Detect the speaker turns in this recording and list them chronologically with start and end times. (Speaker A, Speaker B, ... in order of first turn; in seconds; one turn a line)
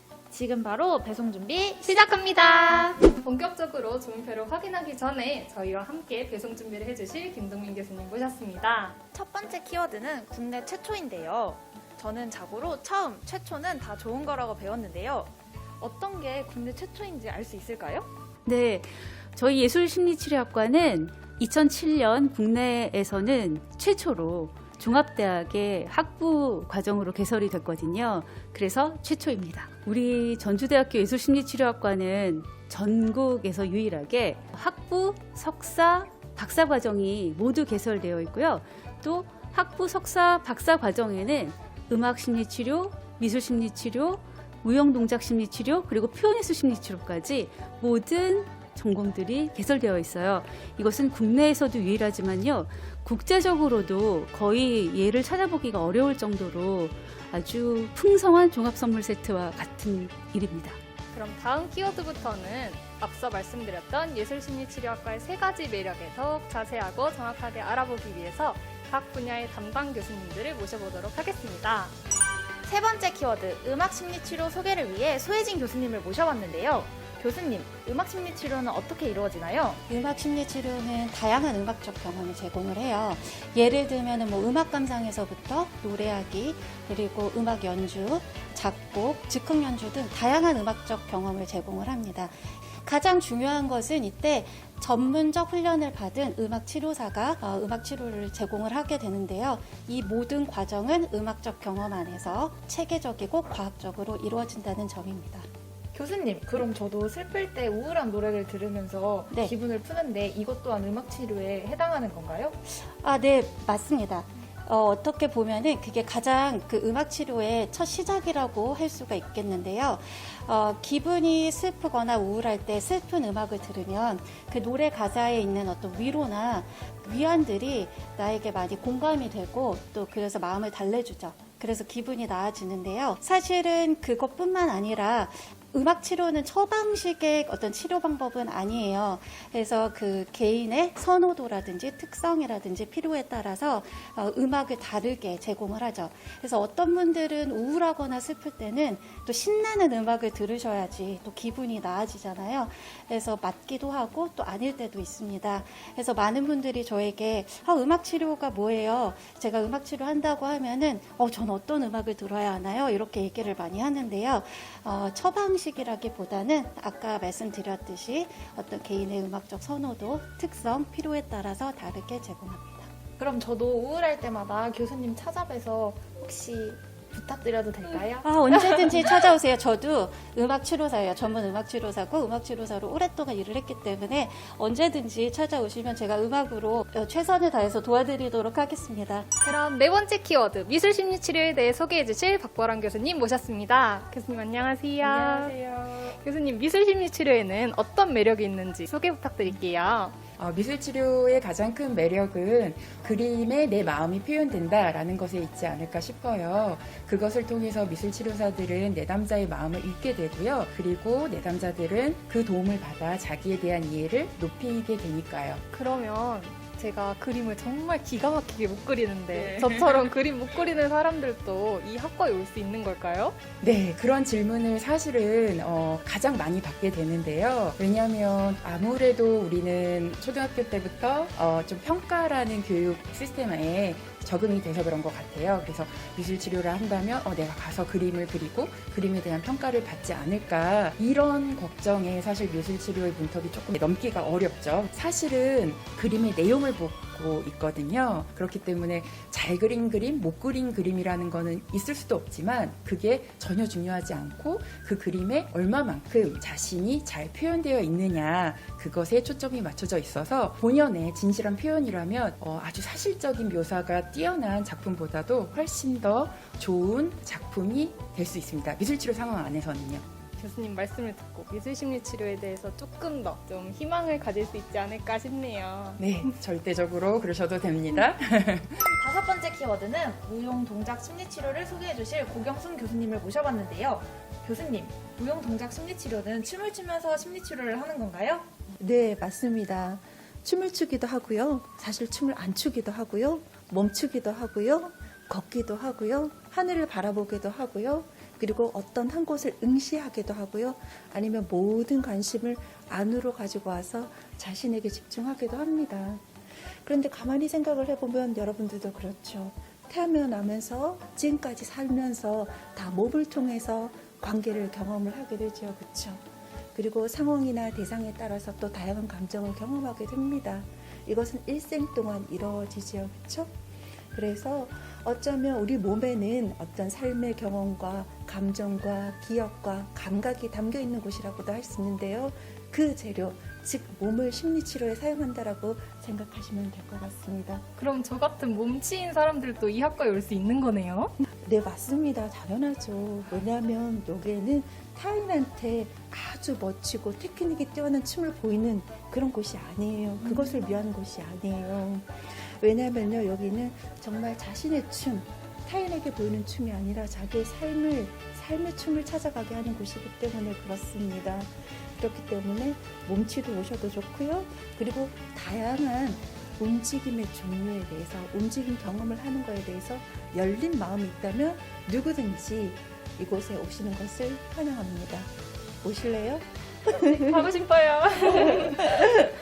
Speaker A: 0.3-1.9
Speaker B: 1.8-8.9
Speaker A: 9.1-18.1
Speaker C: 18.4-60.8
Speaker B: 61.1-72.0
Speaker A: 72.6-79.8
Speaker D: 79.9-105.5
Speaker A: 105.9-112.5
Speaker D: 112.6-172.9
Speaker A: 173.2-178.2
Speaker D: 178.2-189.3
Speaker B: 189.4-200.2
Speaker E: 195.3-195.9
Speaker E: 200.4-215.6
Speaker B: 215.7-223.4
Speaker E: 219.3-219.9
Speaker E: 223.6-270.1
Speaker B: 270.4-276.0
Speaker E: 276.0-278.9
Speaker A: 278.9-288.5
Speaker F: 288.8-306.2
Speaker F: 306.8-316.2
Speaker F: 316.7-323.6
Speaker F: 324.1-337.6
Speaker B: 337.8-341.1
Speaker F: 341.4-377.4
Speaker B: 376.9-379.2